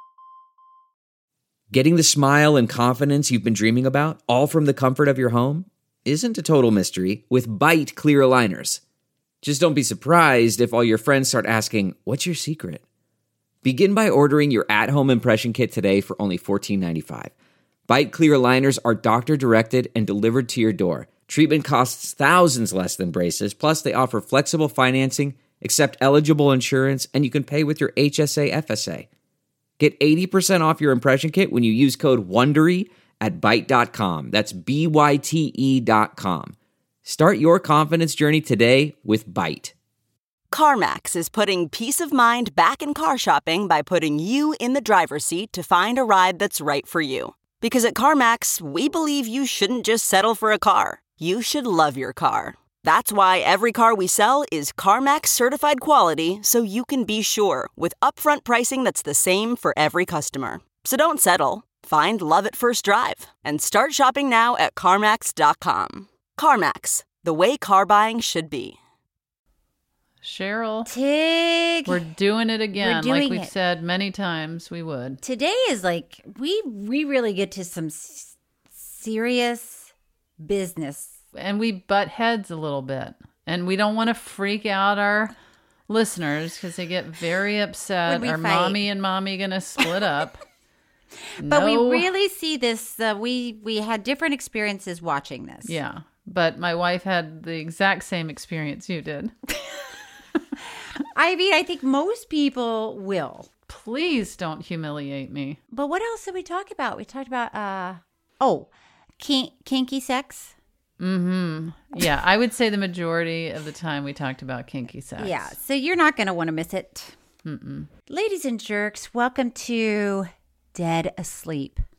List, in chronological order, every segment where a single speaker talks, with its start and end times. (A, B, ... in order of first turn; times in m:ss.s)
0:01.7-0:08.8 A
0:09.4-0:12.8 A
0:13.6-0:17.3 A
0:17.9-0:29.1 A
0:29.8-0:39.7 A
0:40.5-1:08.8 B
1:10.2-1:10.9 C
1:10.8-1:12.0 D
1:11.8-1:15.2 C
1:12.8-1:13.5 D
1:15.2-1:21.2 D
1:21.3-1:25.3 C
1:25.9-1:30.4 C
1:28.0-1:28.8 D
1:31.4-1:32.1 C
1:31.4-1:35.8 D
1:35.6-1:39.3 C
1:41.0-1:43.5 D
1:43.7-1:45.6 C
1:45.7-1:50.5 D
1:51.0-1:55.5 C
1:55.2-1:57.1 D
1:57.4-1:57.9 C
1:58.1-2:01.8 D